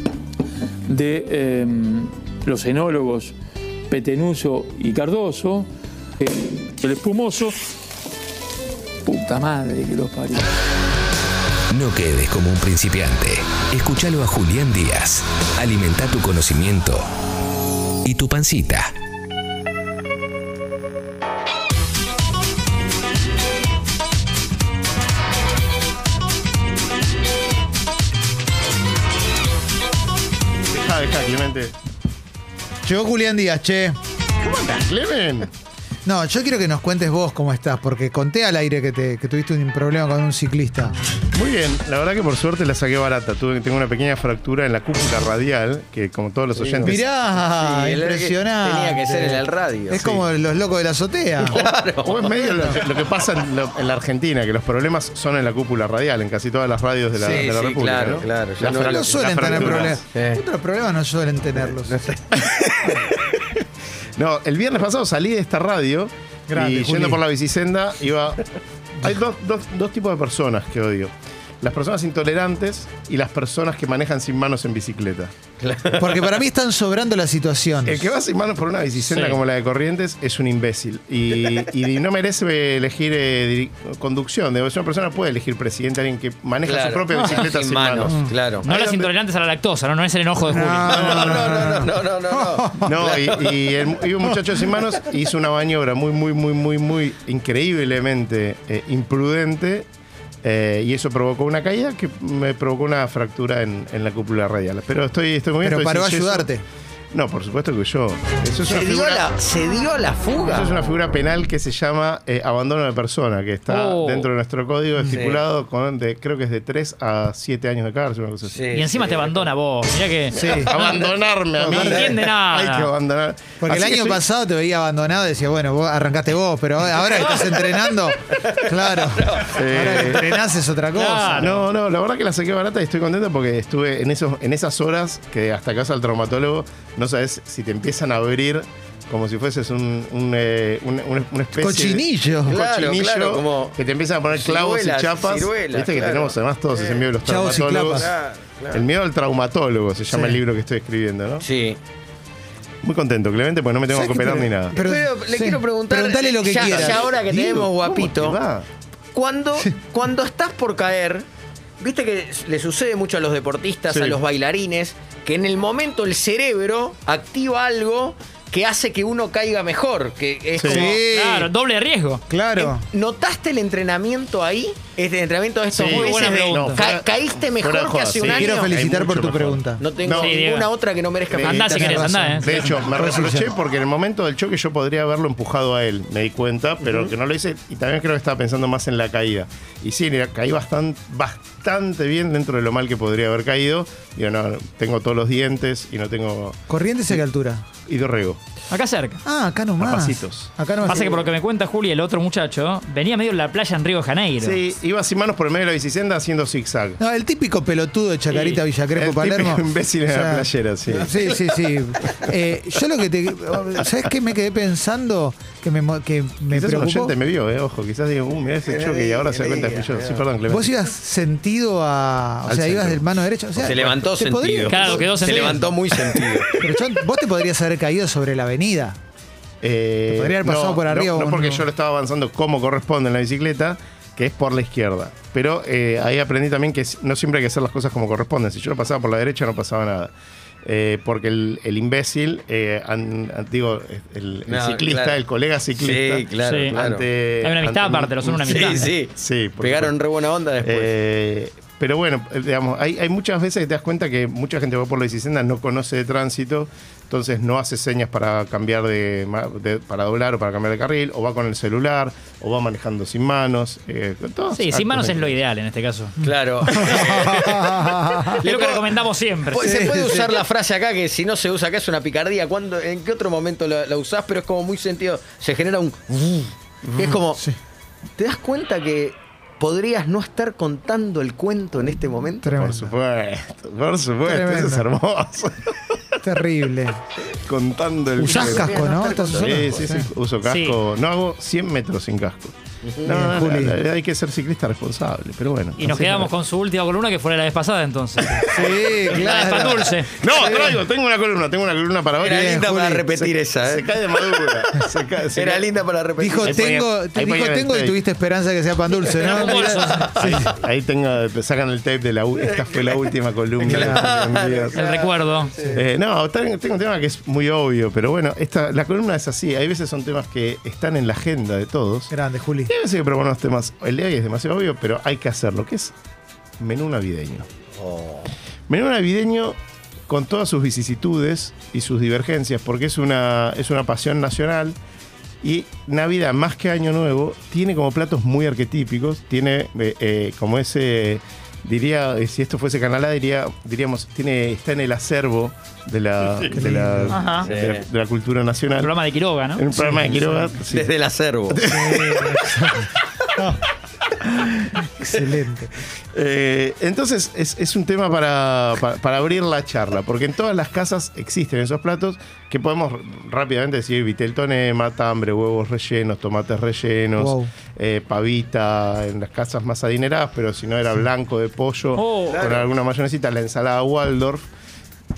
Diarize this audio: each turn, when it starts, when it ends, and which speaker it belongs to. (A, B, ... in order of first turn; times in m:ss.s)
0:00.8-0:03.3 A
0:03.9-0:05.7 A
0:06.2-0:07.6 A
0:09.0-0:10.5 A
0:11.7-0:17.0 B
0:18.0-0:18.9 B
0:30.7-0:31.7 C
0:32.8-0:34.0 D
0:34.4-0:35.5 C
0:36.0-0:40.9 D
0:41.3-0:47.0 C
0:46.5-0:50.1 E
0:46.8-0:51.5 D
0:50.0-0:50.3 C
0:51.4-0:52.8 E
0:51.5-1:00.0 C
0:52.3-0:52.8 D
0:57.2-1:00.4 E
0:58.7-1:02.1 D
1:01.6-1:02.4 E
1:02.3-1:02.8 C
1:04.2-1:15.3 C
1:06.5-1:07.2 D
1:15.6-1:16.4 E
1:16.0-1:18.1 D
1:17.8-1:29.1 C
1:19.0-1:19.4 F
1:26.6-1:28.6 E
1:27.1-1:27.4 F
1:28.1-1:28.3 D
1:28.6-1:31.5 F
1:30.4-1:32.9 D
1:30.8-1:34.0 E
1:30.9-1:31.5 C
1:32.8-1:39.9 C
1:40.4-1:46.5 C
1:45.6-1:46.6 D
1:47.1-1:49.3 C
1:48.6-1:50.9 E
1:50.4-1:58.7 C
1:53.7-1:54.3 F
1:55.0-1:55.2 D
1:55.1-1:55.4 E
1:58.4-1:59.5 E
1:58.7-2:01.0 F
2:00.3-2:04.2 C
2:00.3-2:00.7 D
2:00.7-2:01.1 E
2:01.5-2:02.1 D
2:01.7-2:02.9 F
2:01.9-2:02.1 E
2:03.6-2:11.5 D
2:06.9-2:10.0 E
2:09.4-2:10.3 C
2:10.9-2:11.7 F
2:11.3-2:28.1 C
2:21.5-2:22.6 D
2:22.4-2:23.8 E
2:24.3-2:28.8 E
2:27.2-2:28.1 D
2:28.7-2:31.5 C
2:30.1-2:30.4 D
2:31.4-2:31.8 E
2:32.8-2:34.8 C
2:33.9-2:37.1 D
2:34.7-2:38.4 E
2:36.7-2:38.7 C
2:39.1-2:41.2 E
2:41.8-2:51.0 E
2:43.9-2:44.2 C
2:50.5-2:50.9 C
2:50.7-2:51.5 D
2:51.0-2:52.2 F
2:52.3-2:52.8 D
2:52.6-2:58.8 E
2:55.7-3:00.4 C
2:55.7-2:56.9 F
2:58.3-2:59.8 D
2:59.8-3:01.9 E
3:00.0-3:00.7 F
3:01.3-3:16.6 C
3:01.3-3:02.9 F
3:01.7-3:03.5 D
3:06.8-3:07.1 E
3:16.7-3:17.6 D
3:17.8-3:18.4 C
3:18.7-3:19.2 F
3:19.2-3:21.1 D
3:19.8-3:20.5 C
3:20.8-3:24.6 F
3:24.4-3:27.0 C
3:27.0-3:37.2 D
3:28.3-3:28.6 F
3:28.9-3:31.1 C
3:31.0-3:32.3 E
3:36.5-3:40.7 C
3:38.6-3:40.3 E
3:40.4-3:45.7 D
3:42.4-3:44.0 C
3:43.6-3:46.6 E
3:44.7-3:45.7 F
3:45.9-3:46.4 C
3:46.6-3:49.0 D
3:49.6-4:00.1 C
3:50.1-3:51.6 D
4:00.6-4:09.9 C
4:04.5-4:05.2 E
4:05.7-4:07.1 E
4:06.4-4:06.8 F
4:07.4-4:08.9 F
4:08.3-4:10.9 E
4:10.6-4:25.4 C
4:24.5-4:27.3 F
4:26.2-4:29.0 E
4:26.6-4:28.4 D
4:28.4-4:29.9 F
4:29.5-4:36.4 E
4:29.7-4:30.4 D
4:36.9-4:37.1 C
4:36.9-4:37.4 E
4:37.3-4:37.6 D
4:38.2-4:42.5 E
4:42.4-4:43.0 D
4:42.5-4:45.7 C
4:44.3-4:44.9 D
4:46.2-4:47.0 D
4:47.4-4:55.9 C
4:48.2-4:50.1 D
4:48.2-4:49.8 E
4:50.4-4:50.8 F
4:52.9-4:53.1 E
4:53.0-4:53.8 D
4:55.8-5:00.3 F
4:55.9-4:56.3 D
4:58.4-5:00.8 D
4:58.5-4:59.4 C
4:59.2-4:59.9 E
5:00.0-5:02.5 C
5:02.2-5:04.3 E
5:02.3-5:03.1 D
5:03.1-5:05.7 C
5:05.4-5:06.7 E
5:06.2-5:10.1 D
5:06.4-5:08.0 C
5:08.9-5:10.5 E
5:09.1-5:10.2 F
5:10.1-5:14.8 C
5:12.4-5:15.8 E
5:13.6-5:14.2 D
5:14.7-5:15.5 F
5:15.7-5:22.1 C
5:22.1-5:22.7 D
5:22.7-5:25.9 C
5:26.6-5:27.5 C
5:27.8-5:28.3 E
5:28.7-5:34.8 C
5:35.4-5:48.9 C
5:46.3-5:46.6 E
5:46.5-5:47.3 D
5:47.1-5:47.5 F
5:47.3-5:47.9 E
5:48.8-5:49.6 F
5:49.5-5:50.9 C
5:49.7-5:50.6 D
5:50.7-5:51.7 E
5:51.5-5:52.4 C
5:51.6-5:53.6 D
5:55.0-5:55.7 D
5:56.1-6:14.4 C
6:07.2-6:07.5 D
6:11.9-6:12.5 F
6:12.3-6:12.7 E